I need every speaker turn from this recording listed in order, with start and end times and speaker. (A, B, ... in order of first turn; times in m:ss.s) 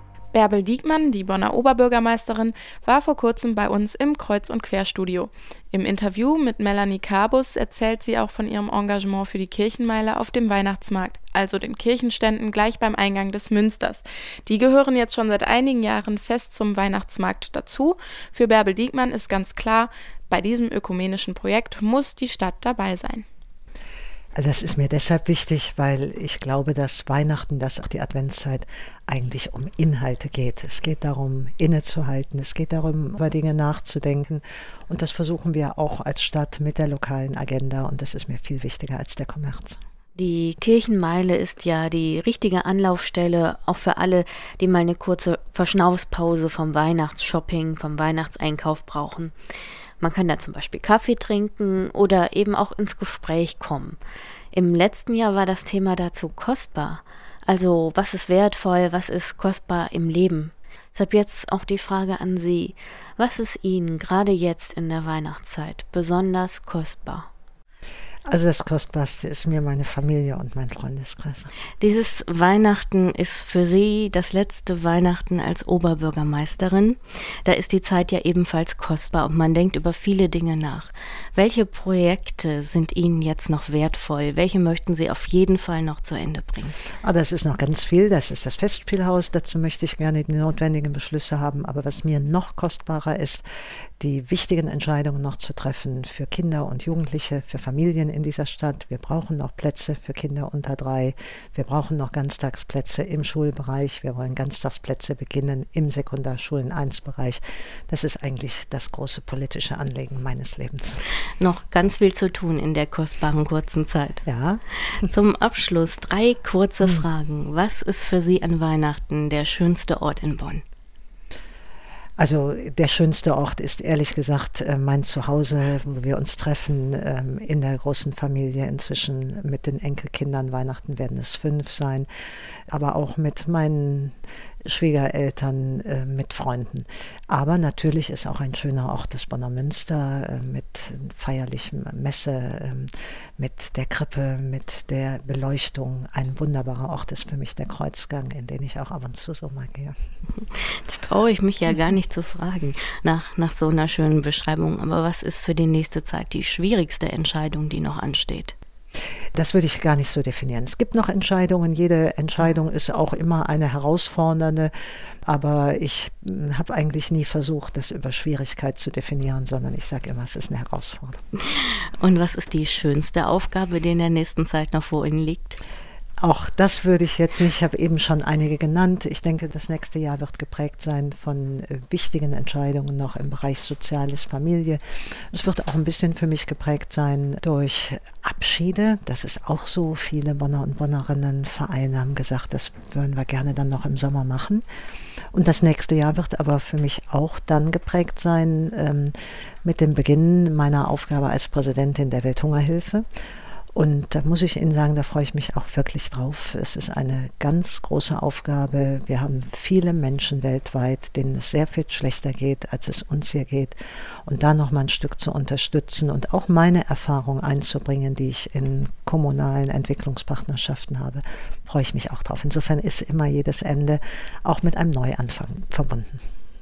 0:00.3-0:23.2 A
0:24.4-0:39.8 B
0:40.1-0:49.3 C
0:50.0-0:54.0 C
0:54.5-1:07.3 C
1:08.3-1:11.5 B
1:11.8-1:26.8 C
1:27.0-1:33.4 B
1:34.0-1:51.0 B
1:51.4-1:54.2 C
1:54.2-1:54.6 B
1:54.8-2:00.6 C
2:02.2-2:12.1 B
2:12.7-2:29.9 B
2:30.4-2:38.5 C
2:39.4-2:44.7 B
2:45.2-2:51.2 B
2:51.4-2:55.6 C
2:56.2-3:04.8 B
3:05.3-3:14.6 B
3:15.3-3:23.0 B
3:23.7-3:33.7 B
3:34.2-3:46.2 B